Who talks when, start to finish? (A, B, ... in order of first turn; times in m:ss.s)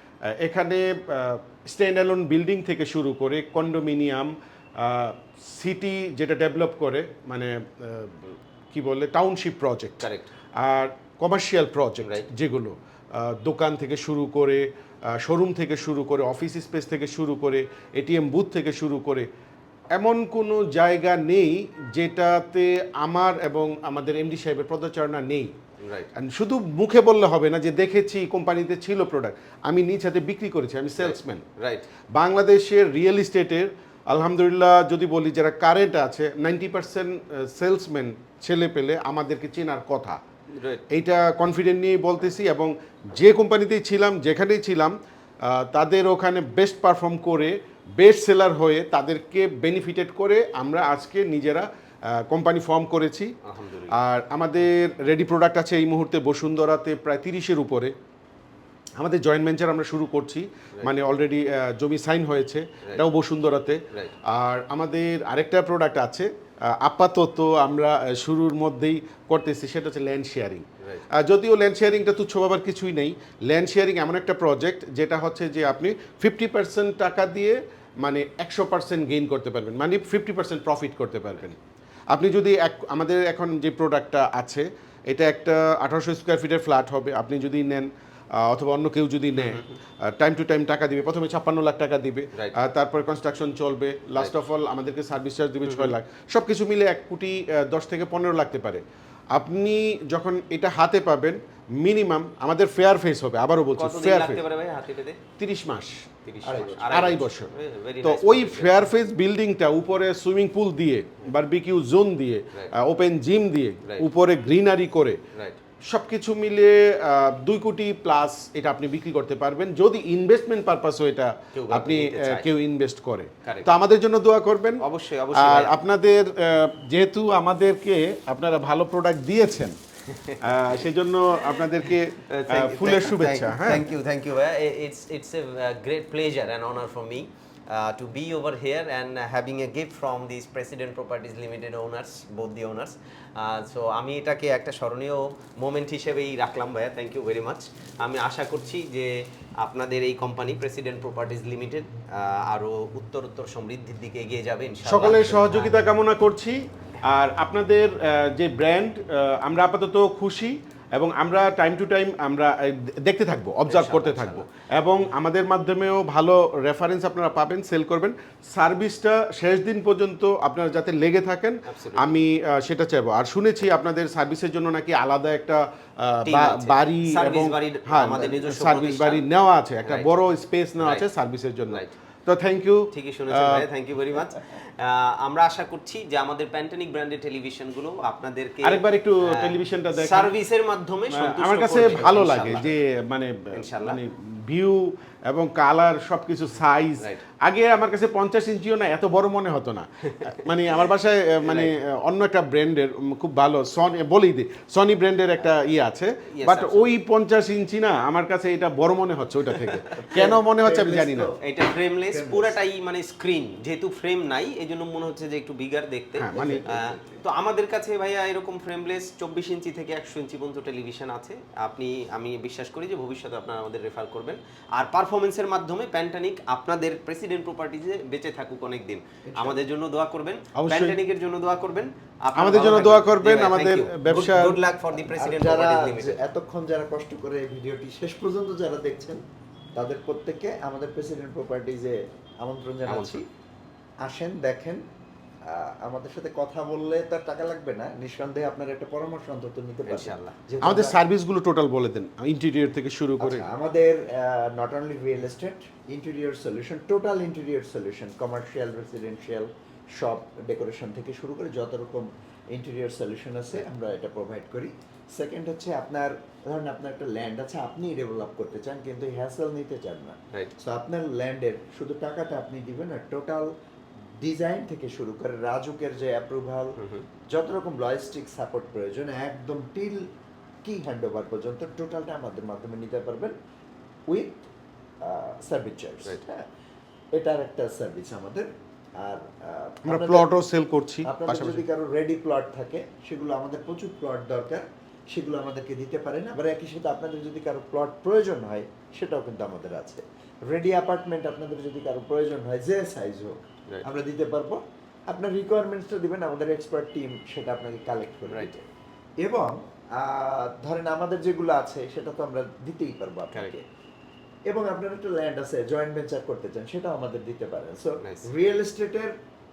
0:00.3-0:19.3 A
0:10.0-0:10.3 B
0:12.0-0:12.3 B
0:19.9-0:25.5 A
0:25.8-0:26.1 B
0:26.2-0:31.4 A
0:31.0-0:31.9 B
0:32.1-0:40.2 A
0:40.5-0:40.8 B
0:40.9-0:53.3 A
0:53.4-0:54.0 B
0:53.9-0:57.9 A
0:59.0-1:21.6 A
1:22.1-1:44.4 A
1:29.4-1:29.8 B
1:32.3-1:32.6 B
1:35.6-1:35.9 B
1:43.7-1:45.2 B
1:45.4-1:47.5 A
1:46.2-1:48.9 B
1:46.4-1:47.1 C
1:48.0-1:55.2 A
1:55.3-1:55.6 B
1:55.8-2:04.8 A
2:01.5-2:02.5 B
2:04.8-2:05.7 B
2:05.3-2:09.8 A
2:10.1-2:10.8 B
2:10.4-2:13.9 A
2:11.8-2:35.7 B
2:34.8-3:03.6 A
2:43.7-2:44.5 B
2:51.7-2:52.2 B
2:56.2-2:59.2 B
2:59.8-3:00.1 B
3:00.8-3:01.0 B
3:02.9-3:12.7 B
3:08.6-3:10.3 A
3:11.1-3:31.3 A
3:13.5-3:14.0 B
3:20.0-3:20.8 B
3:21.4-3:21.7 B
3:26.3-3:26.9 B
3:30.0-3:31.4 C
3:31.4-3:56.2 B
3:32.1-3:32.6 C
3:36.2-3:36.6 A
3:36.3-3:37.2 C
3:49.2-3:49.6 C
3:50.6-3:51.0 A
3:52.4-3:54.6 A
3:52.6-3:52.9 C
3:54.9-3:59.2 C
3:59.7-4:03.3 C
4:02.8-4:03.2 B
4:04.0-4:04.8 C
4:05.4-4:11.0 C
4:09.8-4:10.4 B
4:10.6-4:13.4 A
4:13.2-4:33.5 C
4:34.2-4:36.8 C
4:36.8-4:37.0 B
4:37.3-4:40.1 C
4:40.6-4:43.3 C
4:44.1-4:44.5 C
4:45.0-4:46.4 C
4:47.1-4:50.3 C
4:49.8-4:51.6 A
4:51.0-5:08.6 C
5:08.3-5:08.5 B
5:09.2-5:13.6 C
5:14.5-5:19.2 C
5:18.0-5:18.3 B